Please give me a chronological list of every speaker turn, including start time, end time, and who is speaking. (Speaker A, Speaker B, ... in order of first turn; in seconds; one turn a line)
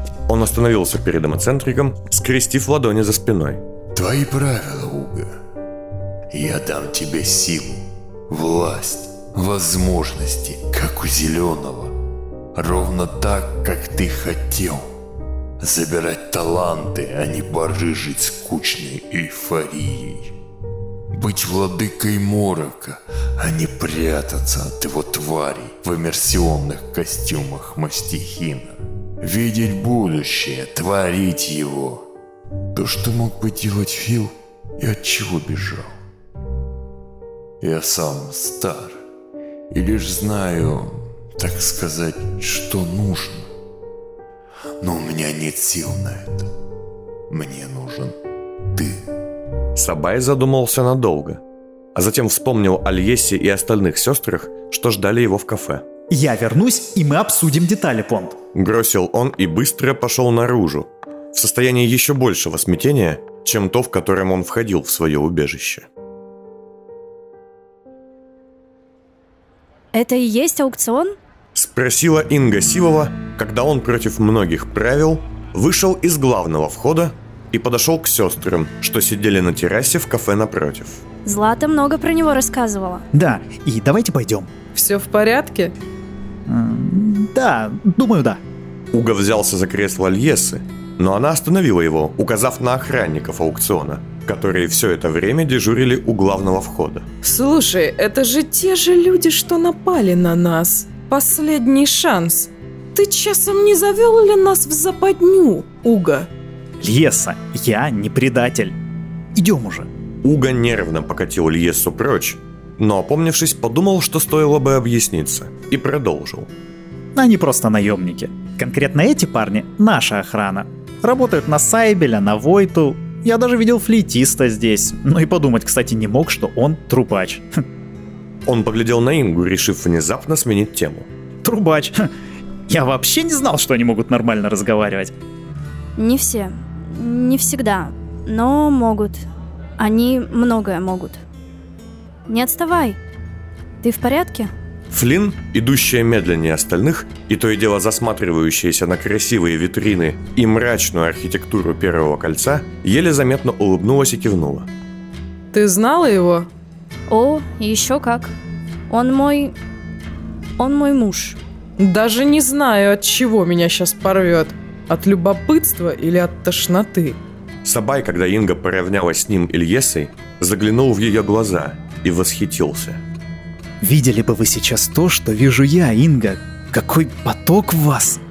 Speaker A: 0.3-3.6
Speaker B: 3.9-5.4
Speaker B: 6.3-11.9
Speaker B: 12.6-14.9
Speaker B: 15.6-20.3
Speaker B: 21.1-32.1
Speaker B: 32.7-36.0
Speaker B: 37.6-39.0
Speaker B: 39.7-43.5
Speaker B: 44.8-46.5
Speaker B: 47.3-48.2
Speaker B: 48.7-49.0
Speaker A: 49.8-51.4
Speaker A: 52.0-55.8
Speaker C: 56.1-58.4
Speaker A: 58.5-65.9
Speaker D: 69.9-71.2
Speaker A: 71.5-81.0
Speaker D: 81.2-83.0
Speaker C: 83.1-84.5
Speaker E: 84.8-85.7
Speaker C: 86.5-88.4
Speaker A: 88.9-97.0
Speaker E: 97.2-106.3
Speaker C: 106.8-108.8
Speaker C: 109.3-109.9
Speaker A: 110.2-116.5
Speaker C: 117.2-127.6
Speaker A: 128.5-131.1
Speaker C: 131.4-132.1
Speaker C: 132.7-135.1
Speaker D: 136.0-139.2
Speaker D: 139.8-141.2
Speaker D: 142.3-143.0
Speaker D: 143.8-144.5
Speaker A: 144.9-154.7
Speaker E: 155.5-156.5
Speaker D: 157.1-158.3
Speaker D: 158.9-159.6
Speaker D: 160.6-161.4
Speaker E: 161.8-167.2
Speaker A: 167.7-173.0
Speaker C: 173.8-178.2